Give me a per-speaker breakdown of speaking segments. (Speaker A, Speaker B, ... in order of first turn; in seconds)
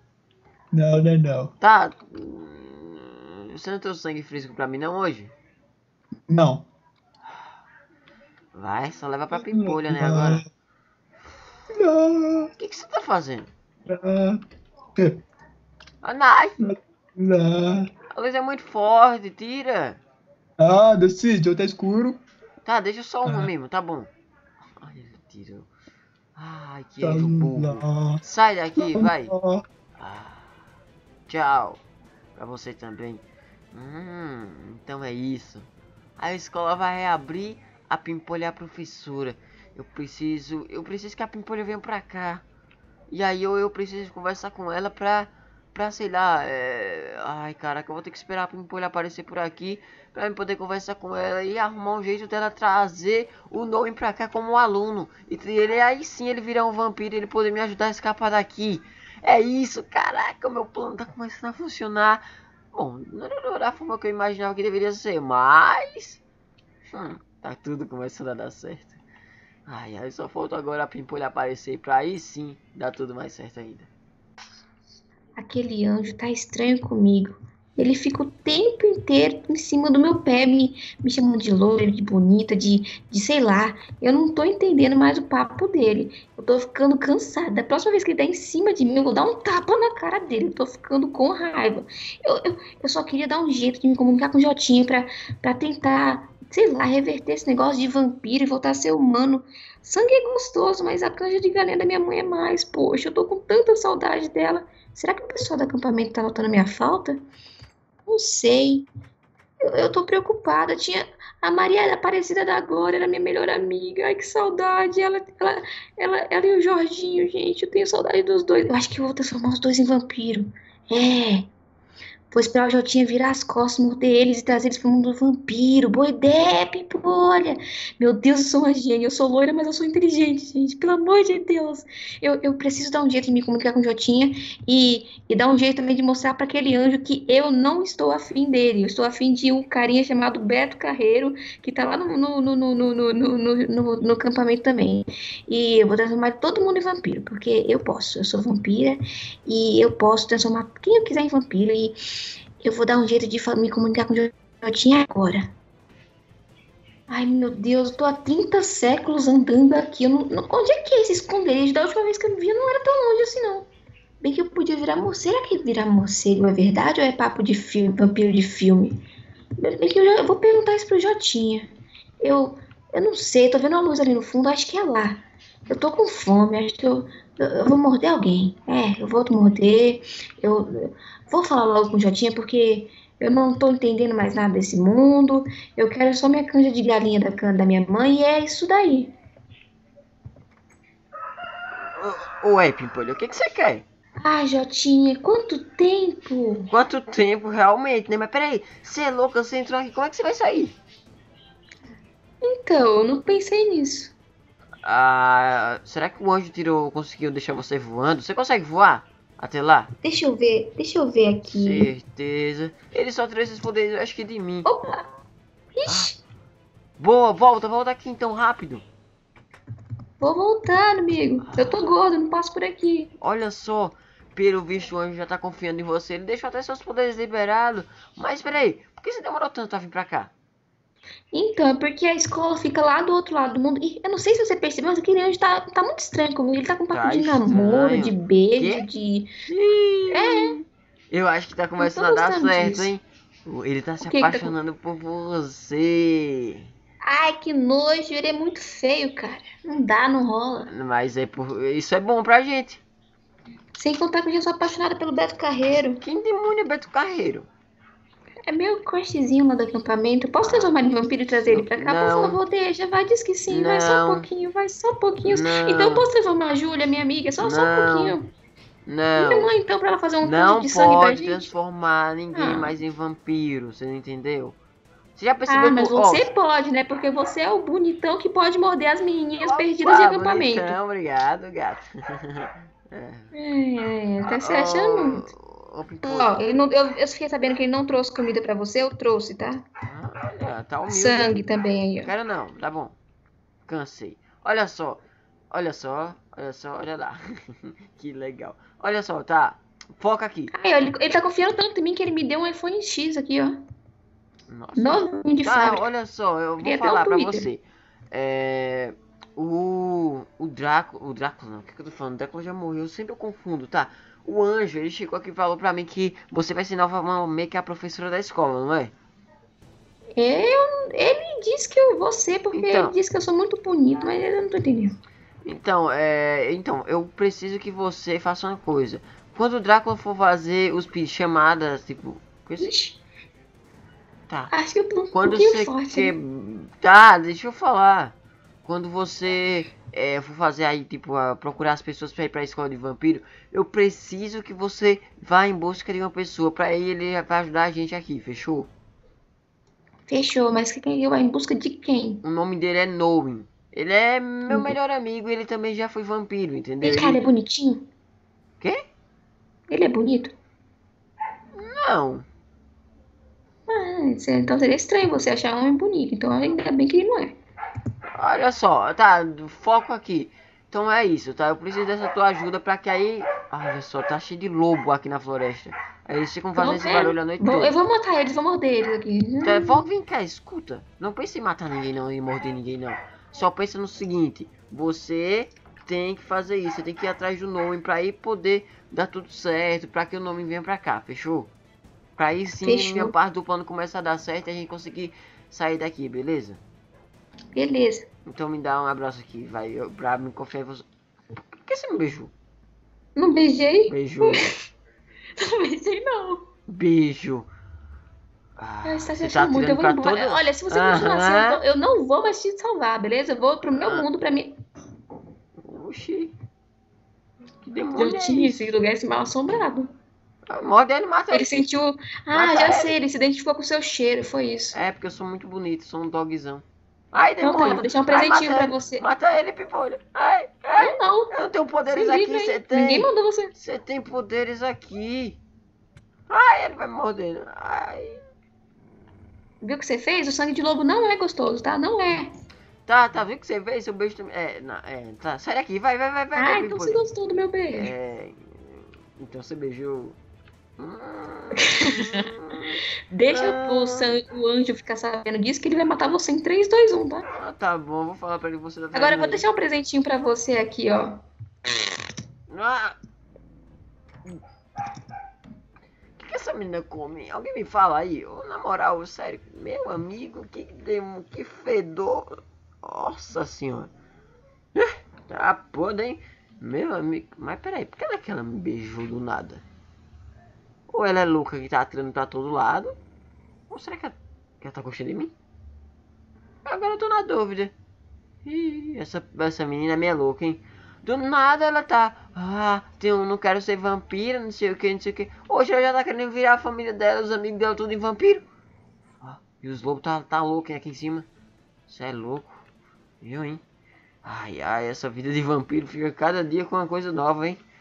Speaker A: 0.7-1.5, 6.3-6.7, 9.3-10.4, 11.7-12.5, 13.9-14.4, 16.6-17.9, 20.6-22.2, 23.2-23.5, 27.0-28.2, 28.8-29.6
Speaker B: 1.6-5.3, 8.5-10.4, 12.6-13.5, 16.0-16.6, 18.1-20.0, 22.6-24.1, 24.8-25.7, 26.4-29.3, 30.0-30.5, 31.3-31.8, 32.4-42.4, 43.1-66.2, 66.9-69.0, 69.7-73.9, 192.0-193.8, 196.7-200.8, 204.8-209.9, 211.4-214.7, 215.8-216.1, 217.0-218.8, 221.4-221.8, 223.2-230.3, 236.9-238.8, 239.5-246.7, 250.7-252.8, 256.0-257.5, 260.4-260.7, 261.5-262.4, 263.5-264.3, 265.2-266.1, 267.4-268.2, 268.9-269.5, 270.2-274.6, 275.1-276.3, 279.4-283.3, 284.3-286.4, 289.9-291.4, 292.0-292.9, 293.6-300.5, 304.5-318.9, 322.5-322.9, 325.4-332.7, 334.3-334.5, 335.1-348.7, 352.2-357.2, 361.6-362.2, 368.1-377.7, 379.4-391.5, 392.2-396.6, 398.3-400.9, 401.6-402.3, 403.9-404.6, 406.7-407.5, 408.6-411.6, 413.7-414.0, 415.6-416.3, 417.6-418.7, 420.5-421.5, 422.3-422.9, 424.7-435.4, 436.3-438.2, 442.8-447.0, 447.7-450.2, 450.8-454.1, 457.4-459.5, 462.5-462.9, 466.2-473.9, 474.8-479.6, 480.9-483.0, 483.7-485.3, 486.6-487.7, 488.4-498.4, 499.2-501.3, 501.9-502.6, 503.2-503.6, 504.2-507.6
Speaker C: 75.4-107.2, 108.0-108.9, 109.7-121.5, 122.3-152.0, 152.6-155.5, 157.1-163.7, 164.2-168.9, 169.6-171.7, 172.2-189.1, 194.2-196.7, 202.4-204.1, 210.0-211.9, 214.6-215.1, 215.7-216.2, 220.2-223.1, 231.3-239.3, 240.1-240.6, 241.8-242.9, 244.0-244.5, 247.0-250.7, 253.8-256.0, 258.5-268.3, 269.1-271.5, 272.3-272.8, 275.5-280.8, 283.3-285.3, 286.0-289.6, 290.9-292.1, 300.5-303.6, 304.8-305.9, 306.6-307.5, 320.1-324.9, 332.6-333.0, 334.5-336.1, 350.1-352.2, 354.5-354.7, 356.8-357.9, 359.7-360.3, 363.7-367.4, 376.6-379.8, 392.6-393.1, 397.5-398.1, 403.1-404.6, 405.4-406.4, 408.8-414.5, 417.9-419.9, 421.3-424.8, 427.4-429.0, 430.8-431.3, 431.9-433.5, 439.6-442.3, 446.4-447.9, 451.6-452.2, 453.1-457.3, 458.9-461.2